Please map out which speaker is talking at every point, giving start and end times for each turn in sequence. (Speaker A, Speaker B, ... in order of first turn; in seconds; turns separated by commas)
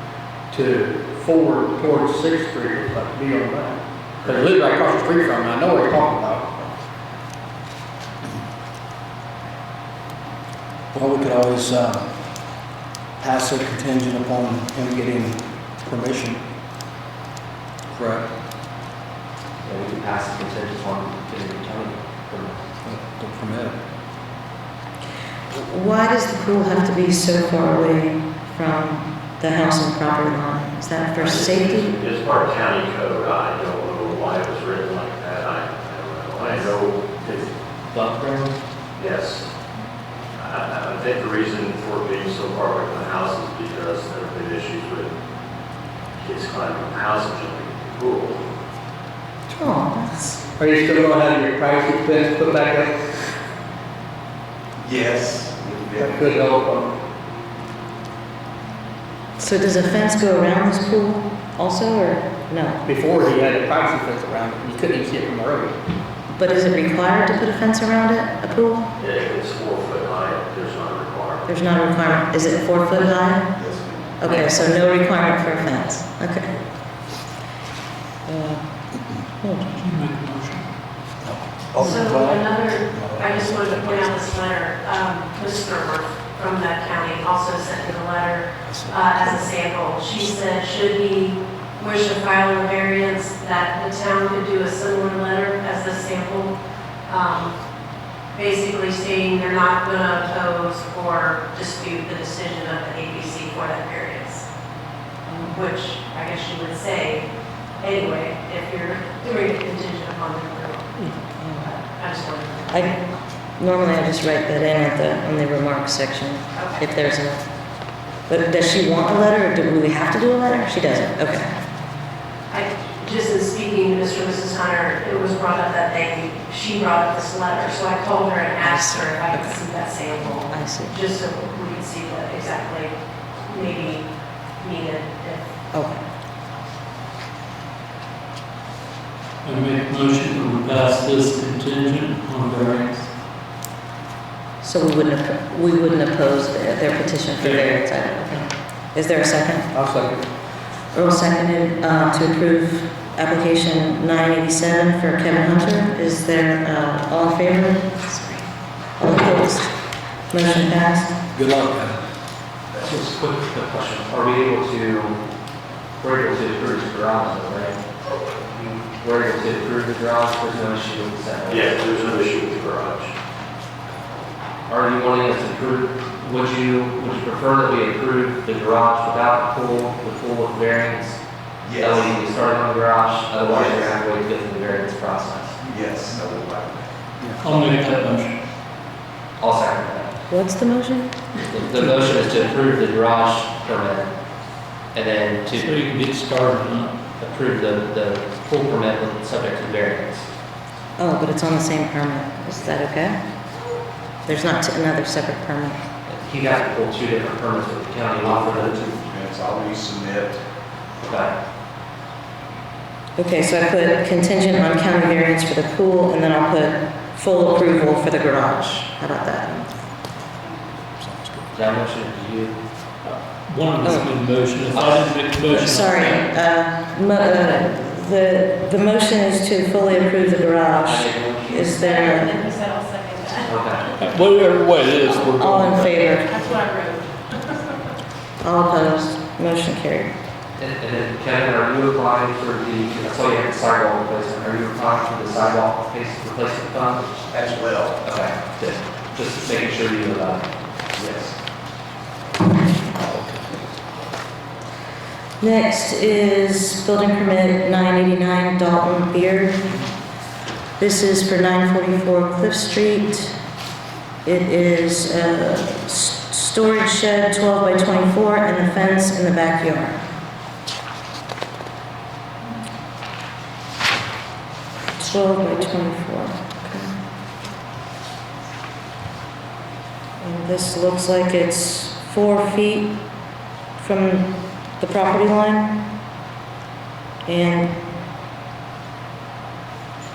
Speaker A: 0.5-6.7, Speaker B: 10.9-12.1, Speaker B: 13.2-16.5, Speaker B: 17.9-18.3, Speaker C: 19.6-22.6, Speaker B: 22.8-23.8, Speaker D: 25.5-31.9, Speaker E: 31.2-37.5, Speaker C: 36.4-36.7, Speaker C: 37.9-38.6, Speaker E: 39.0-39.5, Speaker E: 40.4-45.1, Speaker E: 46.2-48.4, Speaker D: 49.5-50.4, Speaker A: 50.6-53.0, Speaker F: 54.9-55.6, Speaker A: 56.0-56.9, Speaker D: 59.4-62.8, Speaker A: 62.9-65.8, Speaker D: 66.3-68.9, Speaker E: 69.0-71.5, Speaker D: 71.5-73.6, Speaker D: 74.2-76.5, Speaker D: 78.2-78.7, Speaker D: 79.4-79.7, Speaker G: 79.8-80.7, Speaker B: 81.2-84.2, Speaker H: 81.8-96.5, Speaker B: 88.7-89.5, Speaker H: 97.1-97.5, Speaker H: 98.3-104.4, Speaker D: 105.3-105.6, Speaker H: 105.5-107.2, Speaker H: 107.8-113.0, Speaker D: 111.4-111.7, Speaker D: 112.7-113.0, Speaker D: 113.6-117.4, Speaker H: 116.5-116.9, Speaker D: 118.3-121.5, Speaker H: 122.5-132.9, Speaker D: 128.6-129.6, Speaker D: 130.5-131.0, Speaker H: 133.4-134.1, Speaker H: 134.6-135.5, Speaker D: 135.7-136.0, Speaker G: 139.4-143.1, Speaker D: 144.6-149.7, Speaker A: 149.7-150.2, Speaker D: 150.9-158.4, Speaker D: 159.0-159.7, Speaker D: 160.3-161.1, Speaker B: 161.3-162.0, Speaker C: 162.8-165.2, Speaker C: 166.0-167.8, Speaker C: 168.4-171.8, Speaker E: 171.5-173.1, Speaker C: 174.7-185.6, Speaker F: 185.6-186.8, Speaker B: 187.2-187.6, Speaker G: 187.4-188.4, Speaker C: 189.4-190.2, Speaker D: 190.3-192.0, Speaker C: 191.5-194.1, Speaker C: 194.9-195.7, Speaker G: 195.6-197.0, Speaker C: 197.2-200.2, Speaker D: 201.0-203.2, Speaker D: 204.2-205.8, Speaker C: 206.1-208.8, Speaker F: 209.0-210.3, Speaker C: 211.0-211.3, Speaker D: 213.2-219.7, Speaker B: 221.0-221.4, Speaker C: 221.5-222.6, Speaker G: 223.0-226.3, Speaker D: 223.8-224.1, Speaker C: 224.7-225.2, Speaker D: 225.5-232.4, Speaker C: 230.8-231.8, Speaker H: 231.6-233.6, Speaker C: 233.4-233.9, Speaker G: 234.0-236.0, Speaker D: 235.0-236.3, Speaker H: 236.2-237.2, Speaker D: 238.4-240.1, Speaker C: 240.6-247.2, Speaker C: 248.0-250.5, Speaker B: 253.0-253.4, Speaker D: 255.4-259.7, Speaker D: 260.8-263.3, Speaker D: 264.2-270.0, Speaker D: 275.0-276.9, Speaker D: 280.2-283.0, Speaker D: 283.8-284.3, Speaker D: 284.8-285.9, Speaker D: 287.2-287.8